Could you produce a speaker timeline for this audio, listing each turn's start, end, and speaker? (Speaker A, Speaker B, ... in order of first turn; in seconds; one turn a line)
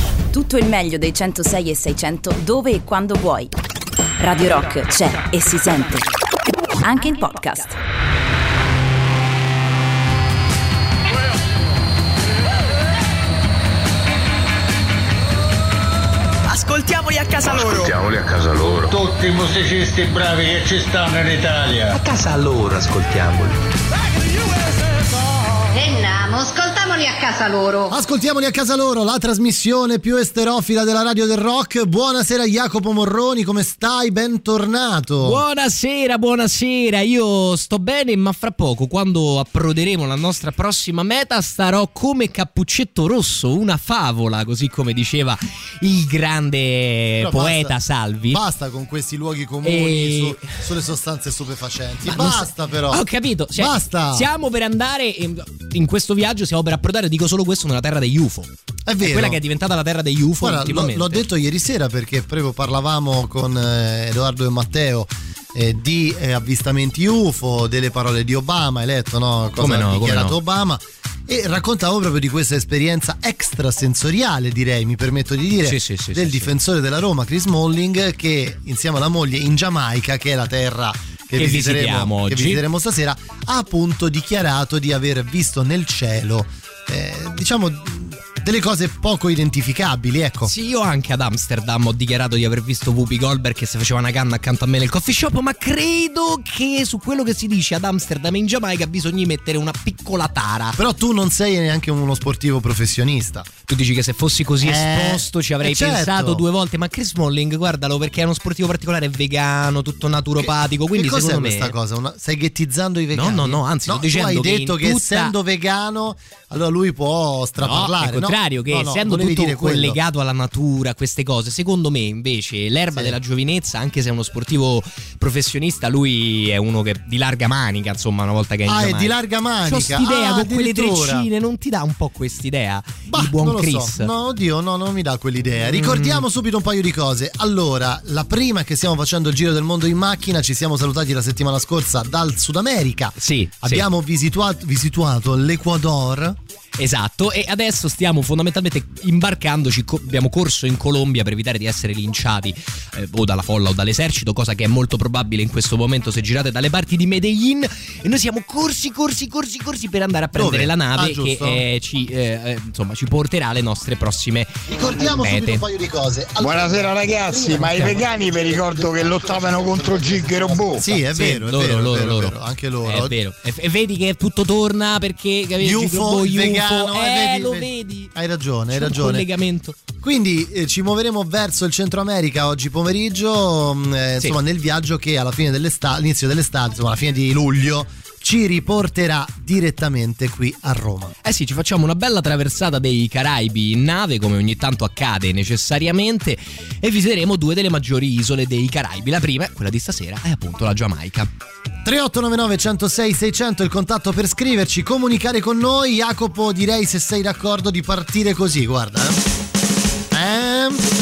Speaker A: 0.3-3.5
Speaker A: 4.2-6.1
Speaker A: 6.8-7.8
Speaker B: 17.6-17.9
Speaker C: 17.6-18.0
Speaker C: 18.9-22.0
Speaker B: 21.9-23.6
Speaker D: 25.7-27.9
Speaker E: 27.9-35.4
Speaker F: 35.2-48.4
Speaker E: 47.2-47.7
Speaker E: 48.3-53.0
Speaker F: 49.6-50.7
Speaker F: 52.0-61.3
Speaker E: 53.6-54.3
Speaker E: 58.9-59.4
Speaker E: 60.4-90.5
Speaker F: 69.6-70.4
Speaker F: 75.6-76.5
Speaker F: 81.3-82.6
Speaker F: 90.4-100.8
Speaker E: 100.8-103.5
Speaker F: 103.7-111.7
Speaker E: 104.6-106.4
Speaker E: 110.4-120.0
Speaker F: 113.1-115.3
Speaker F: 117.6-134.1
Speaker E: 128.7-131.3
Speaker E: 133.1-146.4
Speaker F: 135.7-136.2
Speaker F: 143.2-143.8
Speaker F: 146.8-165.6
Speaker E: 160.3-161.6
Speaker E: 164.7-168.6
Speaker C: 166.4-170.8
Speaker E: 169.8-173.1
Speaker F: 171.0-178.1
Speaker E: 175.6-179.2
Speaker F: 178.7-179.8
Speaker E: 180.0-191.2
Speaker F: 191.2-201.3
Speaker E: 201.8-209.2
Speaker E: 210.1-210.9